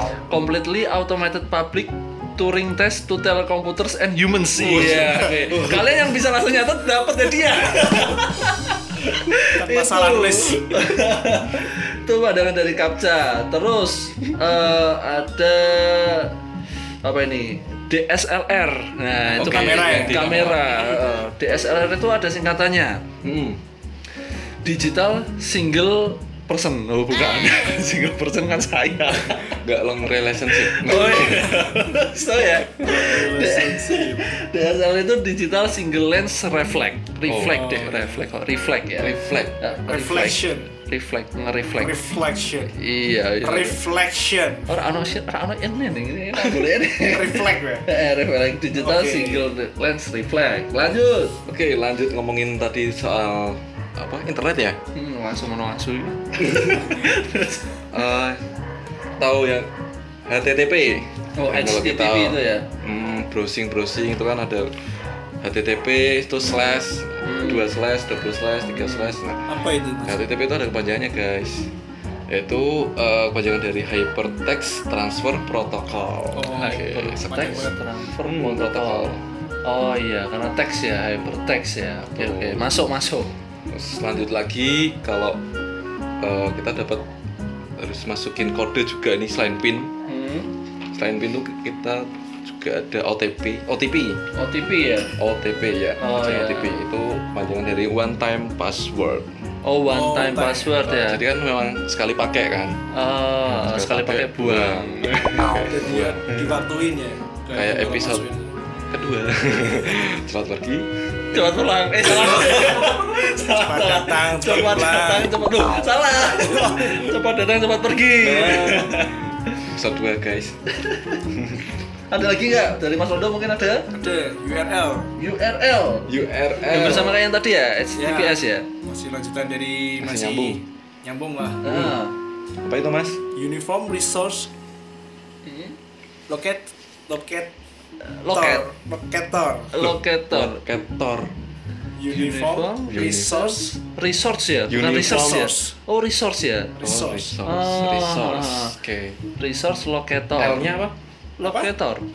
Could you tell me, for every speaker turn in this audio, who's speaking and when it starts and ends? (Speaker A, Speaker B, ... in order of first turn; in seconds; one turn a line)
Speaker A: 0.3-16.3
Speaker B: 4.6-5.9
Speaker C: 4.9-5.2
Speaker C: 9.5-10.8
Speaker A: 17.0-23.0
Speaker C: 19.3-20.4
Speaker B: 19.4-21.0
Speaker B: 23.2-23.6
Speaker A: 24.6-29.6
Speaker B: 29.3-31.7
Speaker A: 30.5-42.0
Speaker C: 32.8-34.3
Speaker B: 37.3-38.1
Speaker C: 37.5-38.0
Speaker B: 39.0-39.5
Speaker C: 39.9-40.7
Speaker C: 41.8-42.7
Speaker A: 42.7-43.8
Speaker C: 43.4-44.7
Speaker A: 44.7-51.4
Speaker C: 47.0-47.9
Speaker C: 48.7-49.5
Speaker B: 51.5-54.8
Speaker A: 54.9-57.7
Speaker B: 56.4-57.0
Speaker B: 57.9-58.4
Speaker B: 59.2-59.7
Speaker B: 60.3-64.7
Speaker A: 61.4-62.6
Speaker B: 65.4-69.5
Speaker A: 67.2-67.7
Speaker A: 68.8-69.2
Speaker C: 69.5-70.3
Speaker B: 70.0-71.7
Speaker B: 72.3-77.7
Speaker C: 76.3-77.8
Speaker A: 76.5-83.3
Speaker B: 78.2-79.2
Speaker B: 82.2-82.7
Speaker B: 83.7-85.4
Speaker B: 86.2-87.0
Speaker B: 87.8-89.9
Speaker A: 90.1-90.5
Speaker B: 90.9-94.2
Speaker A: 94.3-95.1
Speaker B: 95.2-99.3
Speaker A: 96.0-96.8
Speaker A: 99.6-101.2
Speaker C: 99.9-100.8
Speaker B: 100.8-102.8
Speaker A: 102.9-105.6
Speaker B: 103.4-106.3
Speaker C: 105.7-108.6
Speaker B: 107.5-108.2
Speaker B: 108.9-111.4
Speaker A: 111.3-119.6
Speaker B: 112.1-112.9
Speaker C: 113.6-115.3
Speaker B: 118.2-120.5
Speaker A: 120.8-121.2
Speaker B: 121.3-121.6
Speaker A: 122.1-123.9
Speaker C: 123.9-125.1
Speaker A: 125.2-126.1
Speaker B: 126.1-127.2
Speaker A: 126.6-128.7
Speaker C: 127.9-131.6
Speaker B: 130.0-130.6
Speaker A: 131.6-132.1
Speaker B: 131.6-132.0
Speaker B: 132.6-133.2
Speaker C: 133.3-134.5
Speaker A: 135.4-135.8
Speaker C: 136.3-137.5
Speaker A: 138.1-138.6
Speaker C: 138.3-139.7
Speaker A: 139.7-140.6
Speaker B: 139.8-141.3
Speaker C: 141.9-143.7
Speaker A: 142.1-146.8
Speaker B: 142.9-143.3
Speaker B: 144.7-145.5
Speaker C: 144.9-145.7
Speaker C: 146.8-147.3
Speaker B: 146.8-149.2
Speaker A: 147.4-148.8
Speaker A: 149.4-150.7
Speaker B: 150.4-150.9
Speaker A: 151.4-152.1